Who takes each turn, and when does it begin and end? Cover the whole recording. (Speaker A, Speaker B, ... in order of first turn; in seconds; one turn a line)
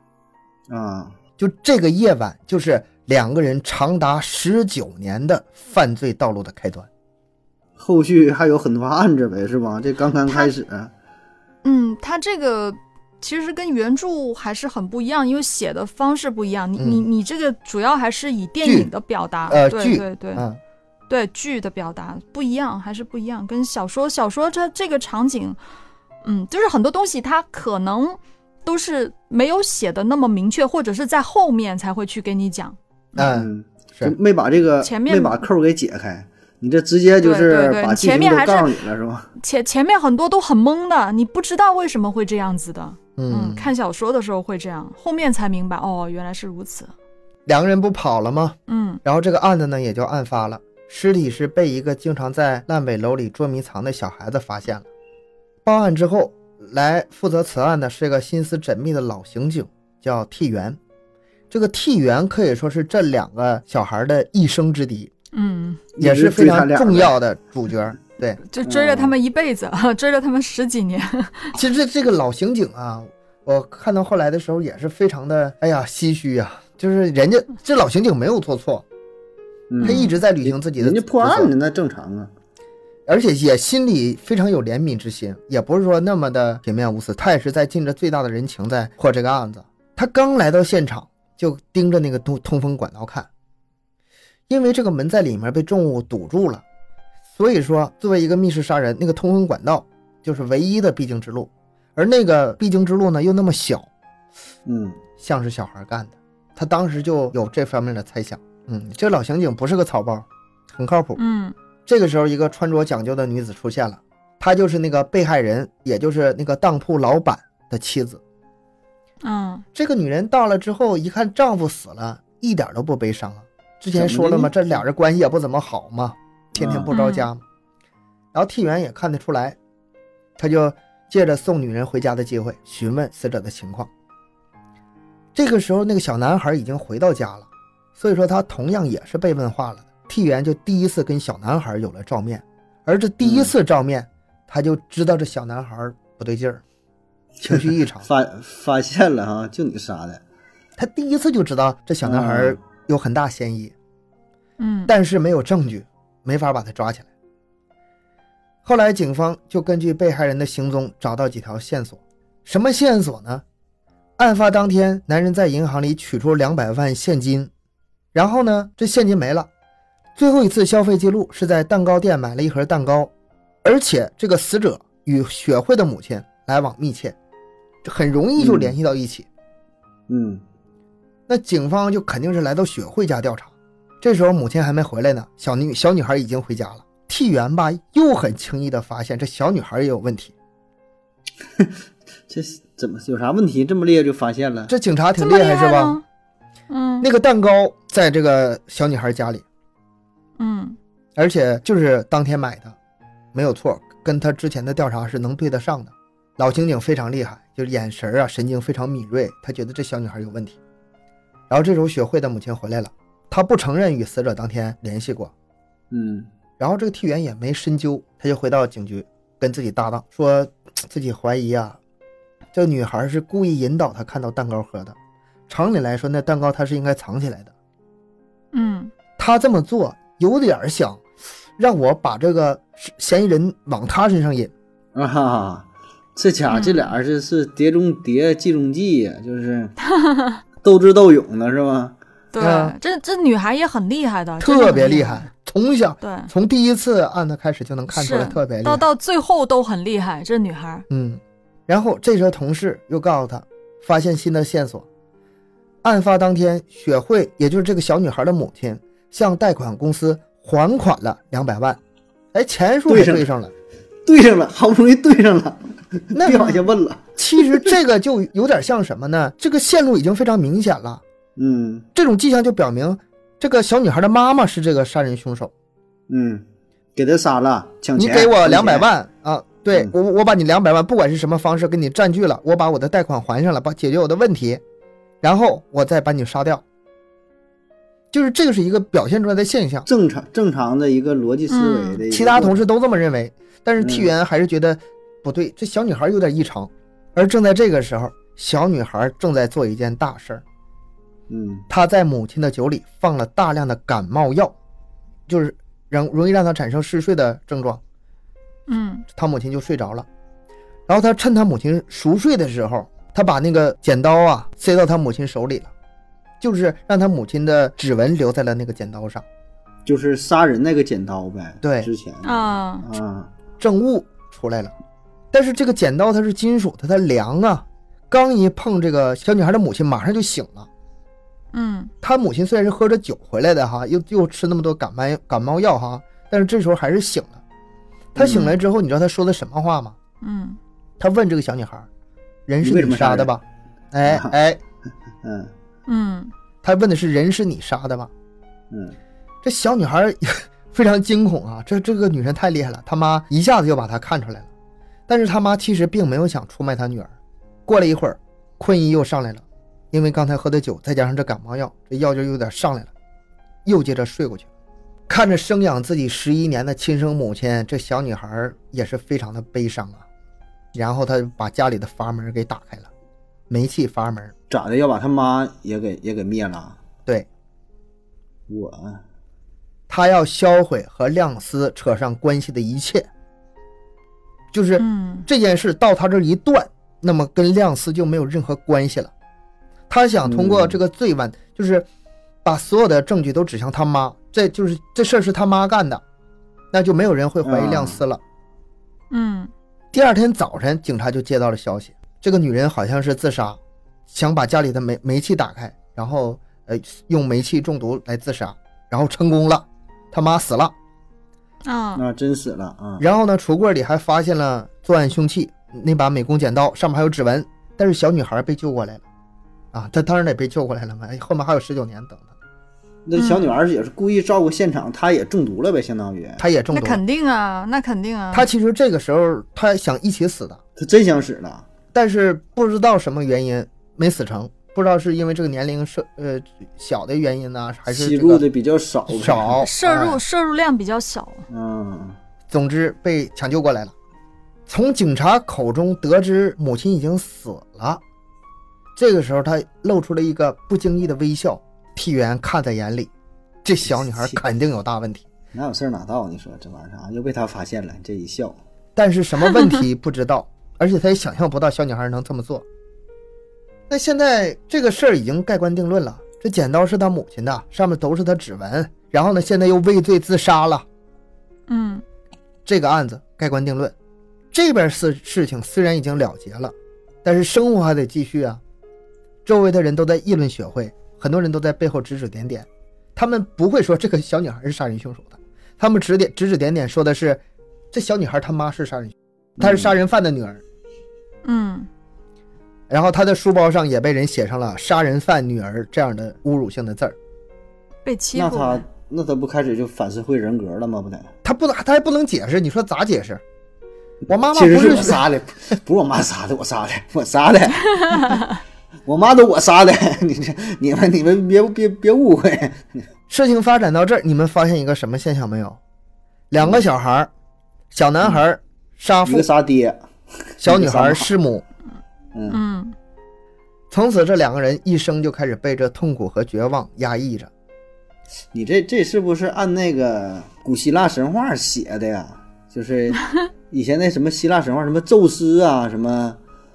Speaker A: 0.7-1.1
Speaker B: 1.4-6.9
Speaker A: 7.8-10.9
Speaker C: 11.6-20.4
Speaker B: 16.8-17.0
Speaker B: 18.6-18.9
Speaker B: 19.5-20.6
Speaker C: 21.1-25.6
Speaker C: 26.2-33.3
Speaker B: 33.2-34.1
Speaker A: 33.2-39.3
Speaker C: 34.8-35.4
Speaker C: 37.2-38.7
Speaker C: 39.4-46.9
Speaker B: 43.2-43.7
Speaker B: 47.5-54.9
Speaker C: 48.7-49.0
Speaker B: 55.6-60.8
Speaker B: 61.5-65.1
Speaker C: 65.3-65.8
Speaker A: 66.0-67.2
Speaker B: 66.0-68.4
Speaker C: 68.5-71.5
Speaker A: 68.6-69.1
Speaker B: 71.5-78.8
Speaker A: 79.7-82.3
Speaker C: 79.8-80.2
Speaker B: 79.8-81.5
Speaker B: 83.1-93.3
Speaker B: 94.5-96.6
Speaker B: 97.3-103.9
Speaker A: 104.7-105.0
Speaker B: 105.2-111.2
Speaker C: 111.2-111.5
Speaker B: 111.9-118.2
Speaker C: 119.2-119.7
Speaker B: 119.8-127.4
Speaker A: 124.0-124.6
Speaker A: 126.6-126.9
Speaker C: 126.9-127.3
Speaker B: 128.3-129.6
Speaker B: 130.4-133.9
Speaker B: 135.3-146.6
Speaker A: 143.2-143.5
Speaker A: 147.4-150.2
Speaker B: 147.4-148.1
Speaker B: 150.8-153.7
Speaker A: 152.0-152.6
Speaker C: 154.6-154.9
Speaker B: 154.9-157.1
Speaker B: 158.6-163.4
Speaker B: 164.2-167.5
Speaker B: 168.1-169.5
Speaker B: 170.2-173.1
Speaker B: 173.6-177.2
Speaker B: 177.8-179.3
Speaker A: 178.4-178.8
Speaker A: 180.1-180.4
Speaker B: 181.3-190.3
Speaker A: 192.3-194.7
Speaker B: 194.7-196.0
Speaker C: 195.2-196.0
Speaker C: 196.7-197.1
Speaker B: 197.0-199.4
Speaker C: 200.4-200.8
Speaker B: 201.2-202.8
Speaker B: 203.3-210.6
Speaker B: 211.5-215.3
Speaker A: 215.9-216.3
Speaker B: 216.6-221.8
Speaker B: 222.5-225.0
Speaker B: 225.5-227.5
Speaker C: 228.5-228.9
Speaker B: 229.2-231.0
Speaker B: 231.6-234.5
Speaker A: 234.9-239.8
Speaker C: 236.5-236.9
Speaker C: 239.8-240.4
Speaker A: 240.6-242.0
Speaker C: 242.3-245.3
Speaker B: 242.4-242.8
Speaker B: 244.4-248.8
Speaker C: 246.0-246.3
Speaker C: 247.9-250.9
Speaker B: 250.9-254.9
Speaker B: 255.8-261.8
Speaker B: 262.3-263.5
Speaker A: 262.9-263.3
Speaker A: 264.1-267.8
Speaker B: 266.1-266.6
Speaker B: 267.2-271.0
Speaker A: 271.4-271.9
Speaker B: 271.9-275.5
Speaker A: 276.1-276.4
Speaker A: 277.0-278.9
Speaker B: 278.0-284.6
Speaker B: 285.2-286.6
Speaker B: 288.1-289.9
Speaker A: 289.9-292.6
Speaker C: 291.5-292.0
Speaker B: 292.1-300.4
Speaker A: 293.8-294.1
Speaker A: 301.3-301.7
Speaker B: 301.7-304.6
Speaker B: 305.3-307.8
Speaker C: 308.7-309.1
Speaker B: 309.1-310.1
Speaker B: 310.9-315.7
Speaker B: 316.4-319.2
Speaker A: 319.9-323.3
Speaker B: 321.6-321.9
Speaker C: 322.2-322.9
Speaker B: 323.6-324.7
Speaker B: 325.3-330.7
Speaker C: 331.5-331.9
Speaker B: 332.0-337.4
Speaker B: 338.1-340.0
Speaker A: 338.2-338.5
Speaker C: 340.2-340.6
Speaker B: 341.0-341.9
Speaker B: 342.5-344.6
Speaker A: 342.6-343.3
Speaker A: 344.1-344.4
Speaker A: 345.2-345.5
Speaker C: 345.9-346.3
Speaker B: 346.6-348.1
Speaker A: 348.7-349.0
Speaker B: 349.4-354.5
Speaker B: 355.1-357.1
Speaker B: 357.7-362.9
Speaker B: 363.6-364.5
Speaker B: 365.1-370.0
Speaker B: 370.7-372.9
Speaker B: 373.5-374.3
Speaker A: 374.5-376.8
Speaker A: 378.5-379.0
Speaker B: 379.9-383.1
Speaker B: 384.5-389.1
Speaker C: 384.8-385.3
Speaker B: 389.9-391.9
Speaker A: 390.2-390.8
Speaker B: 392.4-396.0
Speaker B: 396.7-398.2
Speaker A: 397.4-398.0
Speaker C: 399.1-399.5
Speaker B: 399.9-403.6
Speaker B: 404.1-410.7
Speaker C: 411.6-412.0
Speaker A: 412.0-413.0
Speaker B: 413.0-419.0
Speaker B: 419.7-422.3
Speaker A: 423.1-426.4
Speaker C: 423.2-423.6
Speaker B: 426.4-427.0
Speaker C: 426.7-428.5
Speaker B: 428.3-430.6
Speaker A: 430.8-431.6
Speaker B: 431.9-438.4
Speaker A: 437.9-439.6
Speaker B: 439.1-440.2
Speaker C: 439.6-441.4
Speaker A: 441.5-442.2
Speaker B: 442.5-443.9
Speaker B: 444.7-448.0
Speaker B: 449.0-453.1
Speaker B: 453.6-455.3
Speaker A: 455.5-458.6
Speaker B: 459.0-462.6
Speaker B: 463.9-470.9
Speaker C: 471.7-472.0
Speaker B: 472.7-473.9
Speaker B: 474.5-478.6
Speaker B: 479.4-487.4
Speaker B: 487.9-490.6
Speaker A: 489.6-489.9
Speaker C: 491.4-491.9
Speaker B: 492.9-497.2
Speaker C: 498.1-498.9
Speaker A: 498.4-501.3
Speaker B: 501.4-503.4
Speaker B: 504.3-505.3
Speaker A: 504.5-508.4
Speaker A: 509.1-513.0
Speaker B: 513.3-515.8
Speaker B: 516.5-517.3
Speaker B: 517.9-519.5
Speaker A: 519.2-520.0
Speaker A: 520.6-521.3
Speaker B: 520.6-521.6
Speaker A: 522.3-522.6
Speaker C: 522.5-523.0
Speaker B: 523.9-527.5
Speaker A: 528.5-536.4